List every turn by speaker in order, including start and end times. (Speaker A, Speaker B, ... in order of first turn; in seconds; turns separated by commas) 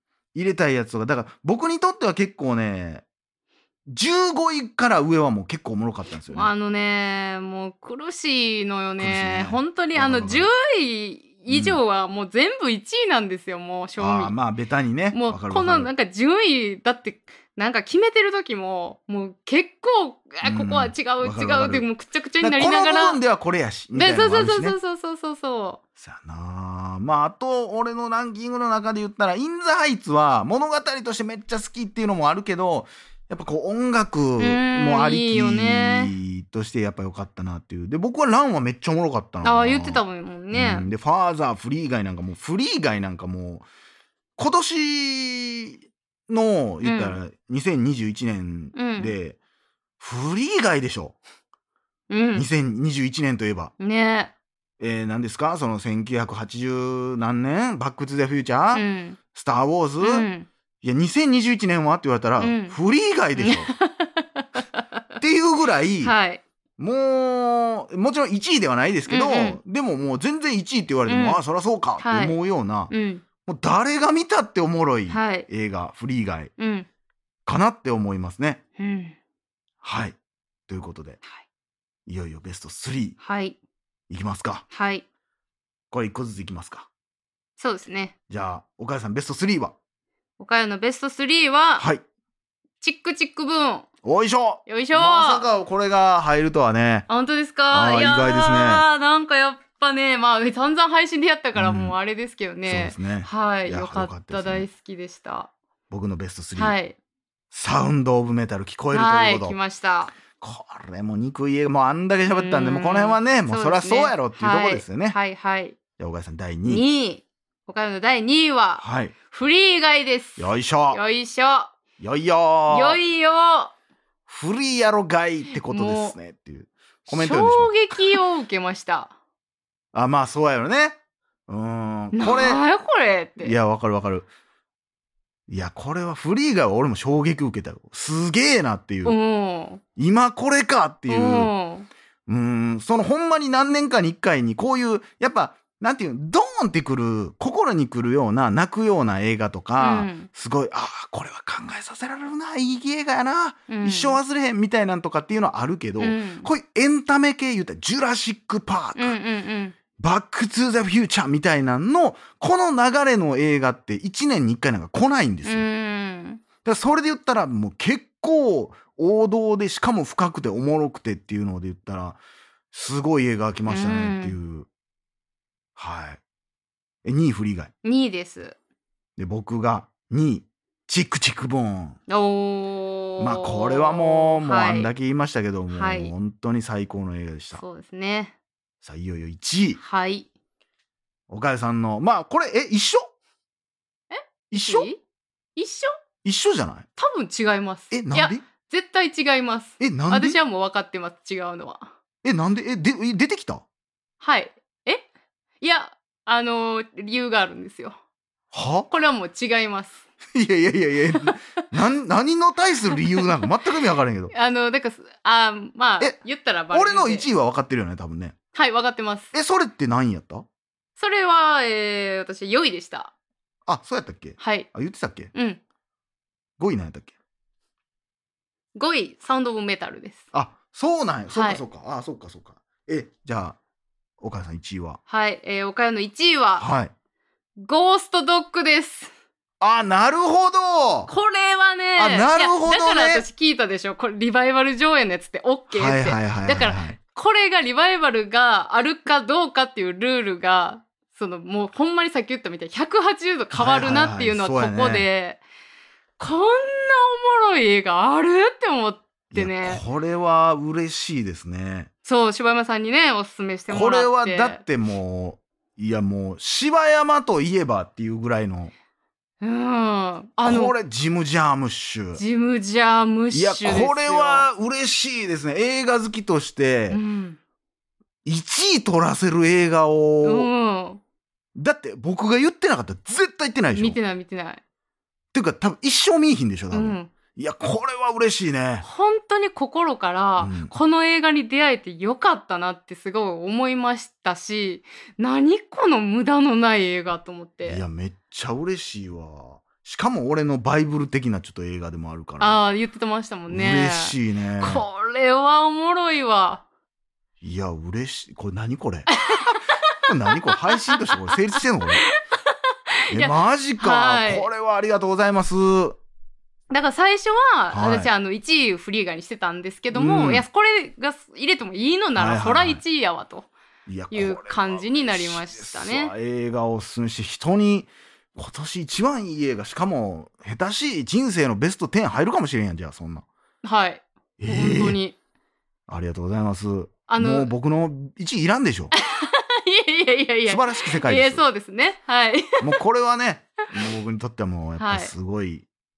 Speaker A: 0.3-3.1, Speaker A: 3.9-6.5, Speaker B: 6.3-14.3, Speaker A: 9.0-10.5, Speaker A: 11.5-11.8, Speaker A: 14.0-15.9, Speaker B: 15.1-23.2, Speaker A: 20.4-21.9, Speaker A: 22.4-24.8, Speaker B: 23.9-25.8, Speaker A: 26.0-43.7, Speaker B: 34.4-36.1, Speaker B: 39.4-40.9, Speaker A: 44.4-49.4, Speaker B: 46.8-47.2, Speaker B: 48.8-49.1, Speaker A: 50.0-51.2, Speaker B: 52.1-52.5, Speaker A: 52.4-53.7, Speaker B: 53.8-54.3, Speaker A: 54.8-60.3, Speaker B: 58.7-59.2, Speaker B: 60.0-60.5, Speaker A: 60.8-63.7, Speaker B: 62.4-62.8, Speaker B: 63.4-64.8, Speaker A: 65.2-66.2, Speaker B: 66.0-66.4, Speaker A: 66.8-72.9, Speaker B: 69.1-69.6, Speaker B: 71.1-71.4, Speaker B: 72.0-72.4, Speaker B: 72.9-73.2, Speaker A: 73.5-76.5, Speaker B: 75.1-75.5, Speaker B: 76.6-76.9, Speaker A: 77.5-78.6, Speaker B: 78.8-79.2, Speaker A: 79.8-80.2, Speaker A: 80.7-81.2, Speaker A: 82.1-83.2, Speaker B: 83.2-83.6, Speaker A: 84.1-84.7, Speaker B: 84.7-85.0, Speaker A: 85.9-86.9, Speaker B: 87.6-88.1, Speaker A: 88.3-89.8, Speaker B: 90.4-91.9, Speaker B: 92.8-93.9, Speaker A: 94.0-97.1, Speaker B: 94.7-95.5, Speaker B: 97.1-105.5, Speaker A: 97.7-98.8, Speaker A: 101.5-102.0, Speaker A: 102.7-104.7, Speaker A: 105.9-106.8, Speaker B: 106.6-107.0, Speaker A: 107.5-109.6, Speaker B: 108.9-110.2, Speaker A: 110.4-115.2, Speaker B: 112.3-115.8, Speaker A: 116.0-116.8, Speaker B: 116.7-121.7, Speaker A: 118.8-119.1, Speaker A: 120.4-121.0, Speaker A: 122.0-123.0, Speaker B: 122.7-123.7, Speaker A: 124.3-128.0, Speaker B: 125.5-126.2, Speaker B: 127.1-129.1, Speaker A: 129.9-132.6, Speaker B: 132.1-133.6, Speaker A: 133.4-134.3, Speaker A: 135.5-139.2, Speaker B: 139.1-139.8, Speaker A: 140.0-141.5, Speaker B: 141.1-141.9, Speaker A: 142.3-159.2, Speaker B: 149.8-150.3, Speaker B: 153.7-154.2, Speaker B: 156.0-156.5, Speaker B: 159.0-159.8, Speaker A: 160.0-165.7, Speaker B: 165.4-166.4, Speaker A: 166.6-172.2, Speaker A: 172.7-174.7, Speaker B: 173.7-174.4, Speaker A: 175.8-176.2, Speaker A: 177.1-177.7, Speaker B: 177.8-178.6, Speaker A: 179.2-182.0, Speaker B: 182.1-184.9, Speaker A: 183.2-187.6, Speaker B: 185.7-186.1, Speaker B: 187.5-188.3, Speaker A: 188.8-189.8, Speaker B: 189.8-190.3, Speaker A: 191.3-193.1, Speaker B: 194.1-195.0, Speaker A: 194.5-194.9, Speaker B: 195.6-195.9, Speaker A: 196.2-196.9, Speaker B: 197.0-201.9, Speaker A: 197.9-198.4, Speaker A: 199.8-200.4, Speaker A: 202.2-203.7, Speaker B: 204.2-205.1, Speaker B: 205.6-208.0, Speaker A: 208.5-208.9, Speaker B: 208.9-210.0, Speaker A: 210.3-214.3, Speaker B: 212.9-213.3, Speaker B: 214.3-217.3, Speaker A: 216.7-218.3, Speaker B: 218.5-219.3, Speaker A: 219.3-220.5, Speaker B: 221.0-223.1, Speaker A: 223.7-225.3, Speaker B: 224.4-224.7, Speaker B: 225.3-225.6, Speaker A: 226.6-227.1, Speaker B: 228.8-230.2, Speaker A: 230.3-233.6, Speaker B: 231.3-231.6, Speaker A: 234.2-235.0, Speaker B: 235.1-236.7, Speaker A: 236.6-236.9, Speaker B: 237.6-239.1, Speaker A: 239.6-241.1, Speaker B: 241.1-255.4, Speaker A: 242.0-243.2, Speaker A: 245.7-247.0, Speaker A: 253.5-255.1, Speaker B: 256.2-259.8, Speaker A: 259.3-261.9, Speaker B: 262.1-264.6, Speaker A: 263.7-268.7, Speaker B: 269.4-270.8, Speaker A: 270.4-272.2, Speaker B: 272.2-274.5, Speaker A: 273.3-277.0, Speaker B: 276.9-277.4, Speaker A: 278.2-280.5, Speaker B: 280.2-281.0, Speaker A: 281.6-284.0, Speaker B: 283.7-284.6, Speaker A: 285.3-288.9, Speaker B: 286.7-287.1, Speaker B: 288.8-297.8, Speaker A: 290.4-290.7, Speaker A: 297.6-302.6, Speaker B: 302.4-306.6, Speaker A: 303.5-304.8, Speaker A: 307.4-309.2, Speaker B: 309.1-309.9, Speaker A: 310.0-312.1, Speaker B: 310.4-311.0, Speaker B: 312.0-312.5, Speaker B: 313.1-314.5, Speaker A: 313.1-316.0, Speaker B: 316.7-323.5, Speaker A: 317.7-318.1, Speaker A: 319.9-320.4, Speaker A: 322.2-322.8, Speaker A: 323.9-333.3, Speaker B: 324.1-326.1, Speaker B: 333.6-335.2, Speaker A: 334.4-335.0, Speaker A: 335.9-338.9, Speaker B: 337.1-337.5, Speaker B: 338.9-342.8, Speaker A: 340.5-341.4, Speaker A: 342.6-345.7, Speaker B: 344.8-345.1